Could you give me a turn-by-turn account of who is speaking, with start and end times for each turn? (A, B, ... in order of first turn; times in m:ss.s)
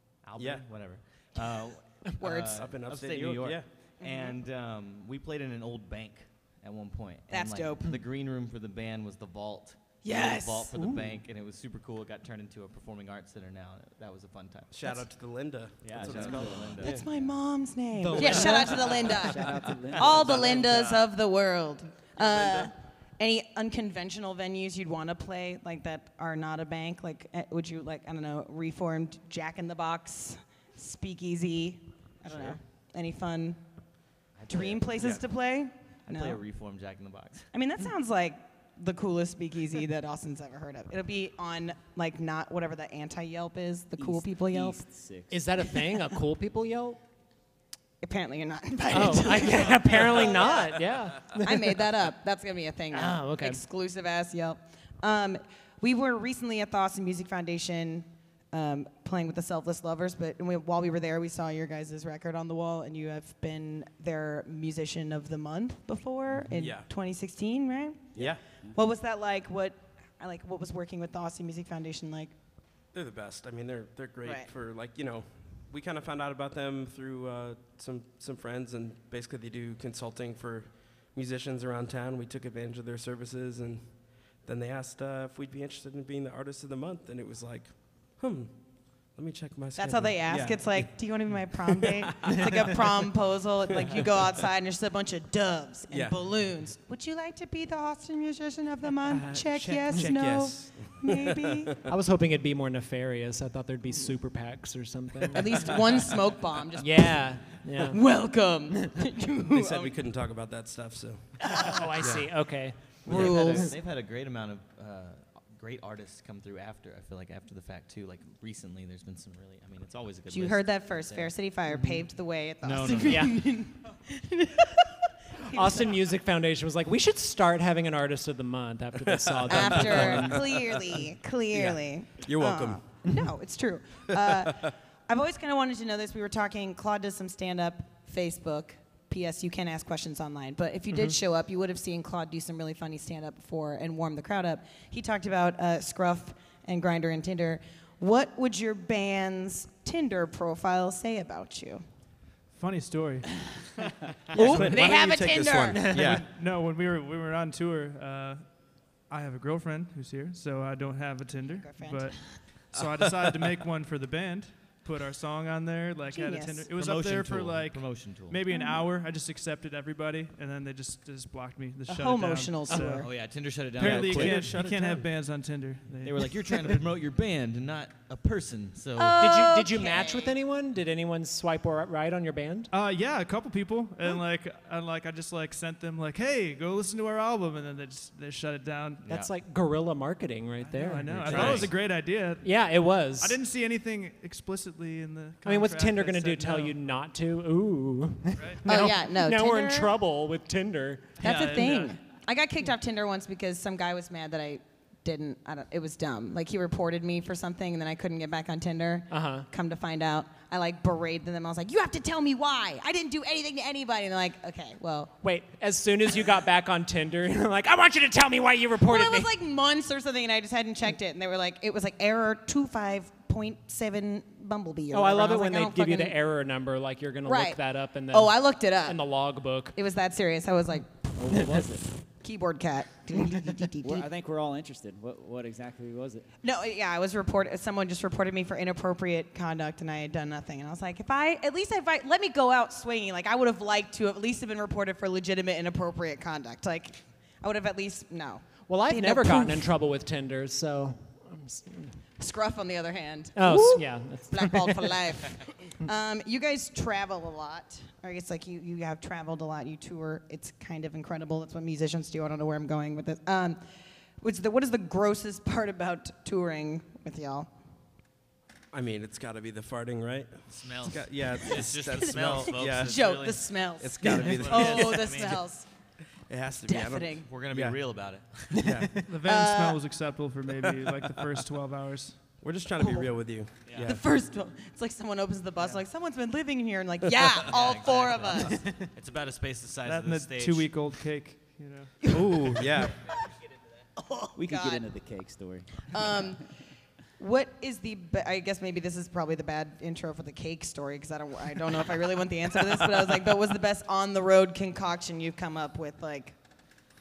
0:00.2-0:14.8 A
0:00.4-0:00.6 B
0:02.2-0:02.7 C
0:02.5-0:03.7 B
0:04.0-0:04.4 C
0:07.3-0:08.0 C
0:10.0-0:10.7 C
0:10.8-0:11.0 D
0:14.7-0:17.0 B
0:15.8-0:17.4 A
0:15.9-0:17.0 E
0:16.8-0:33.6 C
0:18.0-0:19.0 B
0:18.2-0:20.7 E
0:20.3-0:20.9 A
0:20.5-0:21.0 B
0:22.2-0:22.7 B
0:32.3-0:32.6 A
0:34.4-0:35.2 A
0:34.5-0:36.4 C
0:36.1-0:37.5 A
0:37.5-0:44.8 C
0:44.0-0:45.5 E
0:45.3-0:47.0 D
0:48.0-1:08.1 C
0:48.9-0:51.8 D
0:52.9-0:53.6 D
1:06.5-1:06.9 B
1:08.1-1:08.8 E
1:08.2-1:08.4 B
1:08.7-1:12.3 C
1:12.9-1:28.5 B
1:14.2-1:14.5 C
1:29.1-1:32.5 B
1:29.8-1:41.8 C
1:33.8-1:34.1 B
1:35.9-1:36.2 B
1:39.3-1:40.0 D
1:39.9-1:41.8 B
1:41.9-1:45.8 D
1:45.3-1:50.0 C
1:46.8-1:48.0 D
1:49.5-1:52.4 B
1:51.5-1:53.7 D
1:53.0-1:53.7 C
1:53.1-2:02.0 A
2:00.3-2:04.9 C
2:02.6-2:03.4 A
2:03.1-2:03.3 D
2:05.4-2:06.0 C
2:05.5-2:10.5 D
2:09.0-2:10.4 B
2:09.5-2:31.8 C
2:11.7-2:12.8 B
2:14.3-2:14.7 B
2:20.9-2:21.2 D
2:32.5-2:33.5 F
2:34.3-2:35.0 F
2:34.3-2:36.0 C
2:34.4-2:36.3 B
2:34.4-2:34.7 D
2:35.7-2:53.1 F
2:41.4-2:42.4 C
2:42.8-2:43.5 B
2:46.1-2:46.7 C
2:46.7-2:48.4 A
2:48.5-2:48.8 C
2:51.9-2:53.1 C
2:53.0-2:54.6 A
2:53.8-2:56.8 F
2:53.8-2:55.1 B
2:56.0-2:59.2 A
2:59.0-3:00.4 C
2:59.2-3:02.7 D
3:02.7-3:09.0 F
3:09.0-3:09.3 A
3:09.1-3:11.7 D
3:10.6-3:16.8 F
3:11.1-3:11.7 A
3:11.2-3:11.7 B
3:12.4-3:13.4 D
3:15.4-3:21.2 D
3:18.6-3:19.9 C
3:21.2-3:35.1 C
3:21.2-3:22.0 F
3:29.1-3:29.4 D
3:35.2-3:39.3 D
3:38.8-3:46.2 C
3:44.9-3:49.7 D
3:47.2-3:49.0 C
3:49.7-3:54.0 C
3:51.2-3:51.8 E
3:53.8-3:56.2 E
3:56.4-4:09.7 C
4:08.7-4:11.9 D
4:12.2-4:23.6 C
4:13.4-4:15.0 D
4:24.2-4:27.5 C
4:28.7-4:33.0 B
4:30.5-4:35.4 A
4:31.4-4:35.7 C
4:33.8-4:35.0 B
4:36.3-4:37.8 B
4:36.6-4:37.3 C
4:37.2-4:38.8 A
4:38.6-4:39.0 B
4:38.7-4:42.3 F
4:39.2-4:39.8 C
4:42.4-4:44.0 B
4:42.8-4:43.1 C
4:43.8-4:48.7 C
4:47.4-4:50.8 A
4:49.8-4:52.6 F
4:52.0-4:52.4 C
4:52.1-4:53.0 B
4:54.0-4:54.8 C
4:54.4-4:56.1 E
4:55.9-4:56.6 C
4:57.2-5:06.4 C